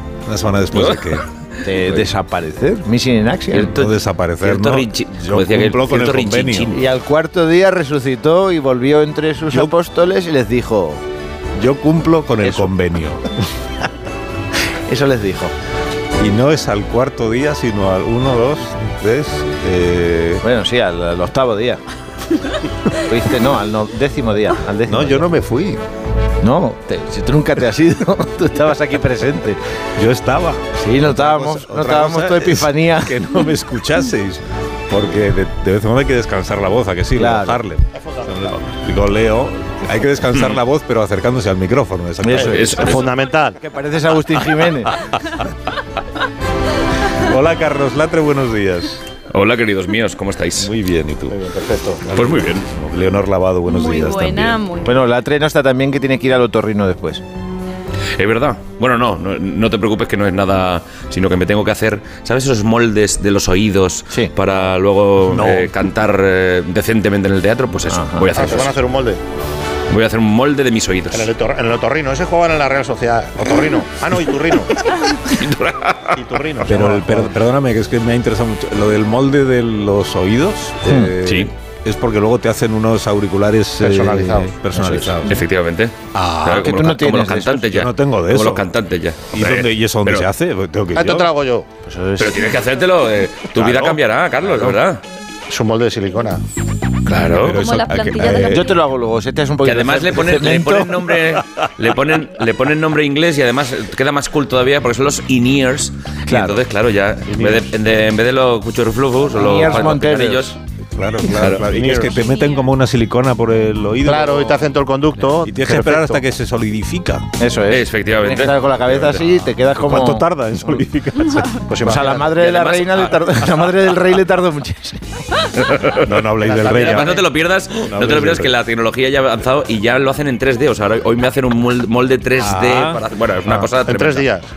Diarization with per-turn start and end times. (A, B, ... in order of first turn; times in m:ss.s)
0:00.3-0:01.2 A
0:00.8-0:01.1 B
0:01.6-0:03.8 C
0:03.5-0:06.7 B
0:03.6-0:06.8 A
0:06.7-0:11.0 C
0:11.6-0:13.3 A
0:12.4-0:12.7 C
0:14.9-0:15.5 C
0:16.2-0:20.4 A
0:20.4-0:21.8 C
0:23.1-0:25.3 C
0:24.9-0:25.8 A
0:26.4-0:29.6 C
0:30.0-0:43.1 A
0:30.8-0:33.2 C
0:37.2-0:37.6 C
0:38.1-0:38.4 D
0:42.2-0:42.8 C
0:42.4-0:43.1 B
0:42.8-0:43.6 D
0:43.6-0:44.9 C
0:47.2-0:49.0 A
0:49.3-0:50.7 B
0:50.6-0:51.4 A
0:51.3-0:52.1 D
0:52.1-0:54.6 A
0:52.2-0:52.7 B
0:53.7-0:55.0 E
0:54.8-0:57.2 C
0:58.2-1:08.8 B
1:05.3-1:05.7 A
1:07.9-1:08.4 C
1:08.3-1:09.2 D
1:09.9-1:11.3 B
1:11.1-1:14.8 D
1:15.3-1:16.2 B
1:16.2-1:17.3 D
1:16.6-1:25.4 A
1:20.9-1:21.2 C
1:21.2-1:21.5 B
1:23.8-1:24.5 D
1:24.7-1:25.2 C
1:25.3-1:30.3 B
1:26.1-1:26.7 A
1:26.5-1:27.7 C
1:27.7-1:28.7 A
1:29.3-1:31.3 A
1:31.0-1:31.7 D
1:31.8-1:32.6 C
1:32.2-1:35.0 B
1:34.4-1:34.8 C
1:35.5-1:36.4 D
1:37.1-1:37.6 B
1:37.4-1:38.7 A
1:37.6-1:38.8 E
1:38.5-1:41.1 C
1:39.6-1:50.6 B
1:46.3-1:46.6 C
1:49.3-1:50.5 C
1:51.0-1:54.7 A
1:51.3-1:52.1 B
1:52.2-1:52.7 E
1:54.0-1:56.2 D
1:55.4-1:57.3 A
1:57.4-2:00.3 C
1:57.7-1:58.6 B
1:58.9-2:01.7 A
2:01.7-2:02.4 D
2:01.8-2:05.0 C
2:02.4-2:03.2 B
2:06.0-2:07.2 A
2:06.4-2:07.2 D
2:06.7-2:14.3 B
2:07.8-2:08.5 A
2:12.4-2:13.0 A
2:13.5-2:14.5 D